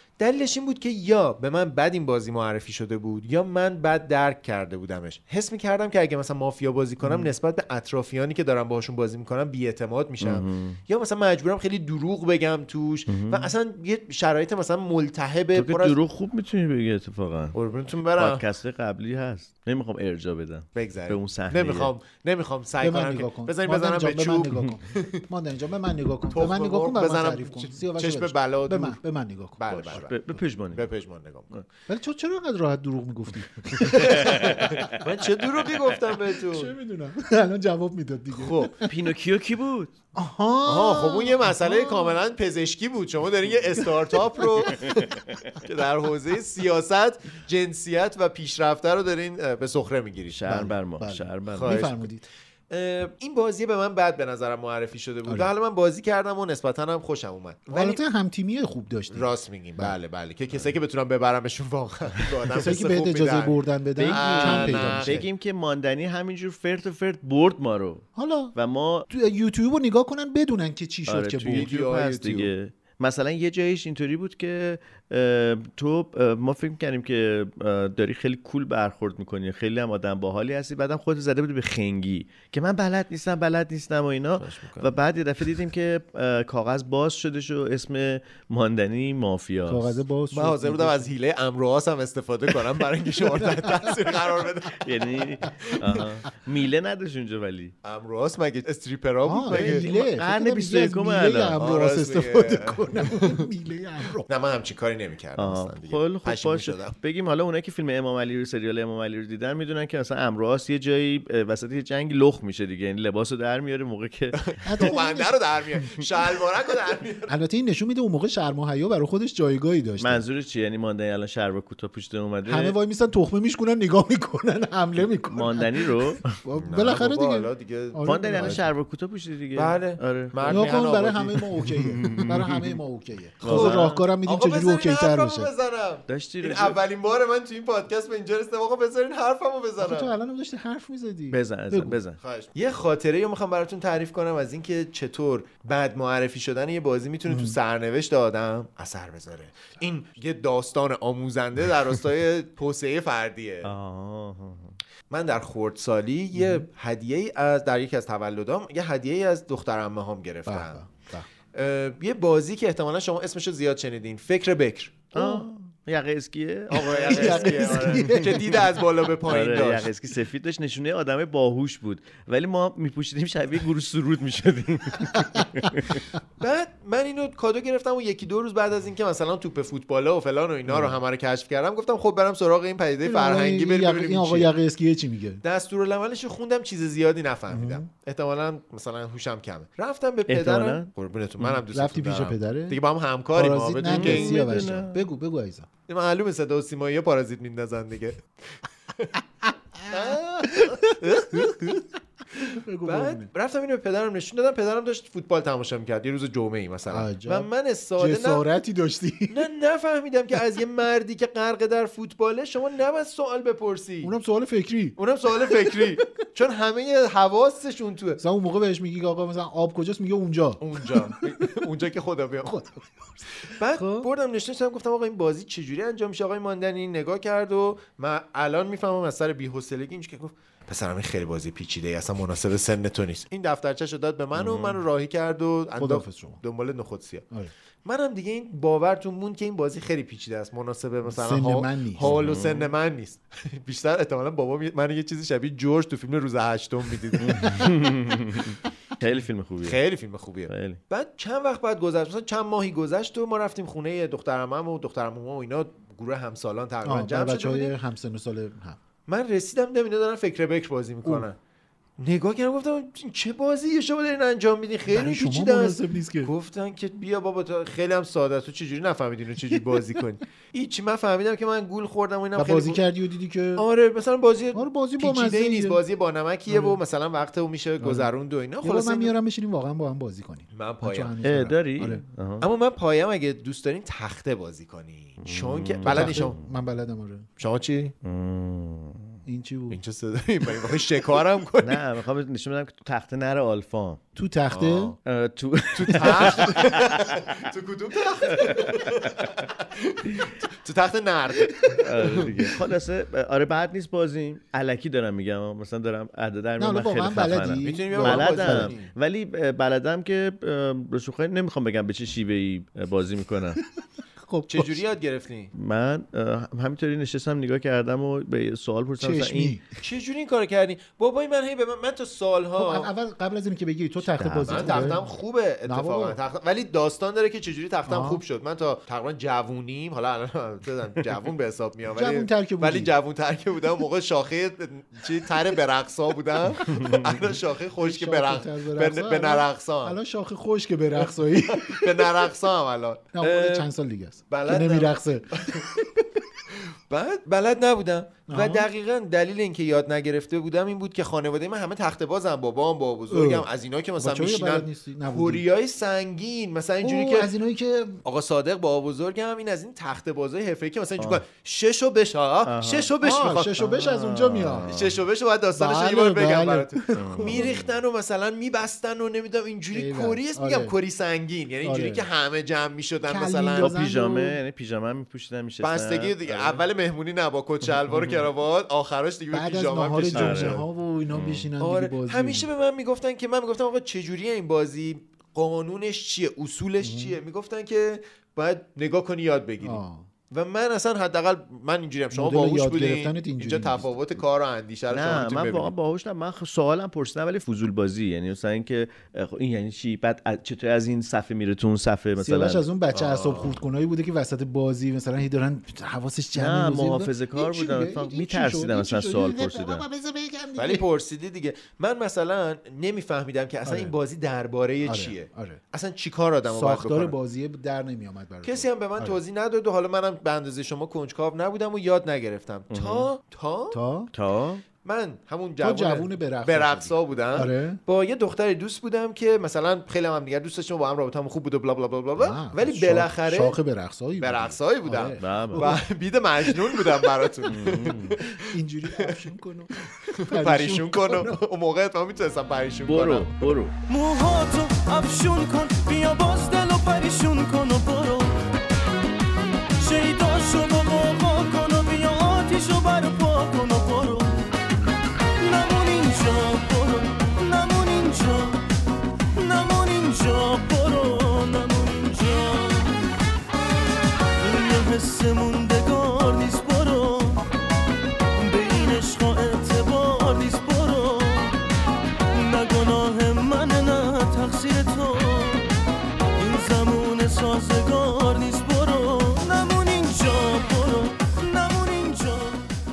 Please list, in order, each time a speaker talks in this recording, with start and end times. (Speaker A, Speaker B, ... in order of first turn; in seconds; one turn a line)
Speaker A: 0.2-16.0
Speaker B: 10.2-10.8
Speaker B: 13.1-13.5
Speaker B: 15.5-17.6
Speaker A: 17.6-18.4
Speaker B: 18.1-21.9
Speaker A: 20.8-25.2
Speaker C: 22.8-30.0
Speaker A: 26.3-29.0
Speaker A: 29.6-30.2
Speaker B: 29.7-30.9
Speaker A: 30.7-31.5
Speaker C: 31.9-35.0
Speaker A: 34.0-36.7
Speaker C: 36.5-38.9
Speaker A: 38.3-38.7
Speaker B: 38.9-39.9
Speaker C: 40.1-42.2
Speaker A: 40.7-50.6
Speaker C: 43.8-44.9
Speaker B: 50.3-51.9
Speaker C: 50.5-52.2
Speaker A: 51.5-52.0
Speaker A: 52.7-58.0
Speaker C: 57.7-59.9
Speaker A: 59.1-65.2
Speaker C: 62.6-65.2
Speaker B: 64.0-69.1
Speaker C: 68.2-68.5
Speaker C: 69.1-71.7
Speaker B: 71.1-90.0
Speaker A: 71.5-72.5
Speaker A: 84.5-84.9
Speaker C: 89.7-91.1
Speaker A: 90.3-94.9
Speaker C: 93.4-93.9
Speaker B: 94.8-97.7
Speaker A: 97.8-99.9
Speaker C: 99.3-104.3
Speaker B: 99.5-101.7
Speaker A: 101.6-103.4
Speaker A: 104.3-107.0
Speaker B: 105.4-114.9
Speaker A: 114.4-117.3
Speaker C: 114.7-115.9
Speaker C: 117.3-120.2
Speaker B: 120.0-122.8
Speaker C: 122.5-128.7
Speaker B: 125.3-126.2
Speaker A: 126.6-128.6
Speaker B: 128.0-130.8
Speaker A: 129.6-132.2
Speaker C: 130.5-135.5
Speaker B: 132.0-132.5
Speaker B: 133.4-134.1
Speaker A: 133.4-140.1
Speaker B: 136.1-136.8
Speaker C: 139.8-142.0
Speaker B: 141.3-142.2
Speaker A: 142.2-153.7
Speaker C: 147.3-147.6
Speaker B: 153.6-154.8
Speaker A: 155.1-160.9
Speaker C: 156.4-156.7
Speaker C: 160.5-161.3
Speaker A: 161.6-165.3
Speaker B: 165.1-168.4
Speaker A: 166.7-169.9
Speaker C: 166.8-168.7
Speaker B: 169.2-176.0
Speaker A: 176.4-184.5
Speaker C: 183.1-185.4
Speaker A: 185.4-194.7
Speaker C: 187.5-187.8
Speaker B: 190.3-190.9
Speaker C: 191.7-192.8
Speaker C: 193.3-195.7
Speaker B: 193.9-195.0
Speaker A: 195.9-198.2
Speaker A: 199.9-201.8
Speaker C: 199.9-201.5
Speaker C: 202.4-203.3
Speaker A: 202.8-208.5
Speaker C: 206.9-209.4
Speaker A: 209.3-214.2
Speaker C: 214.0-215.0
Speaker A: 215.0-218.2
Speaker C: 215.5-215.8
Speaker C: 218.2-221.2
Speaker A: 220.6-222.6
Speaker C: 222.5-222.8
Speaker A: 223.6-237.3
Speaker C: 223.8-224.1
Speaker B: 234.3-234.8
Speaker C: 235.8-236.4
Speaker A: 237.8-247.6
Speaker C: 241.1-242.1
Speaker B: 242.0-242.7
Speaker B: 247.2-249.8
Speaker A: 249.6-257.7
Speaker B: 250.5-250.8
Speaker C: 256.9-258.8
Speaker A: 259.1-261.4
Speaker A: 262.0-272.8
Speaker C: 264.9-266.3
Speaker C: 272.4-273.6
Speaker A: 273.6-279.1
Speaker C: 274.5-275.8
Speaker C: 276.5-276.8
Speaker C: 277.8-278.1
Speaker C: 278.6-282.0
Speaker A: 280.5-281.1
Speaker B: 281.2-282.5
Speaker A: 282.4-286.4
Speaker B: 285.2-286.4
Speaker C: 285.9-287.3
Speaker A: 287.4-287.9
Speaker B: 288.0-289.2
Speaker C: 289.3-289.8
Speaker A: 289.7-291.8
Speaker B: 291.6-294.0
Speaker C: 294.2-294.9
Speaker A: 294.5-295.0
Speaker B: 295.1-297.2
Speaker A: 295.8-302.5
Speaker B: 298.4-299.1
Speaker B: 301.8-313.6
Speaker C: 306.6-308.8
Speaker A: 307.6-308.9
Speaker C: 314.2-314.8
Speaker A: 314.5-315.5
Speaker B: 315.5-319.6
Speaker C: 319.0-319.6
Speaker A: 319.8-322.9
Speaker C: 322.6-325.0
Speaker B: 324.1-325.0
Speaker A: 324.4-340.0
Speaker C: 325.7-326.2
Speaker C: 327.9-328.2
Speaker C: 331.9-332.9
Speaker C: 337.8-342.1
Speaker A: 341.0-343.7
Speaker C: 343.1-345.4
Speaker A: 344.3-345.8
Speaker A: 346.9-357.3
Speaker C: 348.3-348.7
Speaker C: 353.1-353.5
Speaker C: 354.0-355.4
Speaker C: 356.8-358.0
Speaker A: 358.1-363.7
Speaker B: 361.0-361.2
Speaker B: 362.4-362.9
Speaker C: 363.0-364.8
Speaker B: 363.6-364.9
Speaker A: 364.7-373.8
Speaker C: 365.6-367.6
Speaker B: 367.0-367.7
Speaker C: 369.7-370.7
Speaker C: 371.6-372.1
Speaker C: 373.1-374.4
Speaker B: 373.6-376.6
Speaker A: 375.6-380.6
Speaker B: 377.9-378.2
Speaker C: 379.3-382.5
Speaker B: 380.1-381.5
Speaker A: 381.6-395.7
Speaker C: 386.8-387.2
Speaker C: 389.6-390.1
Speaker C: 392.1-393.9
Speaker B: 394.9-402.6
Speaker C: 402.2-410.9
Speaker A: 402.9-403.6
Speaker B: 406.4-409.9
Speaker A: 410.6-417.1
Speaker C: 413.6-413.9
Speaker C: 414.9-415.6
Speaker C: 416.5-419.2
Speaker A: 418.4-423.8
Speaker B: 422.7-423.1
Speaker C: 423.7-424.1
Speaker B: 424.1-424.6
Speaker A: 424.8-433.6
Speaker C: 425.6-427.8
Speaker C: 432.2-435.9
Speaker A: 434.2-438.4
Speaker B: 435.2-435.7
Speaker C: 436.4-437.2
Speaker B: 437.5-438.2
Speaker C: 438.4-441.4
Speaker A: 440.1-443.4
Speaker B: 442.9-443.8
Speaker D: 443.9-448.4
Speaker D: 449.8-454.4
Speaker D: 455.4-458.6
Speaker D: 459.4-463.0
Speaker D: 464.4-467.4
Speaker D: 468.4-471.6
Speaker D: 472.3-475.7
Speaker D: 476.4-482.6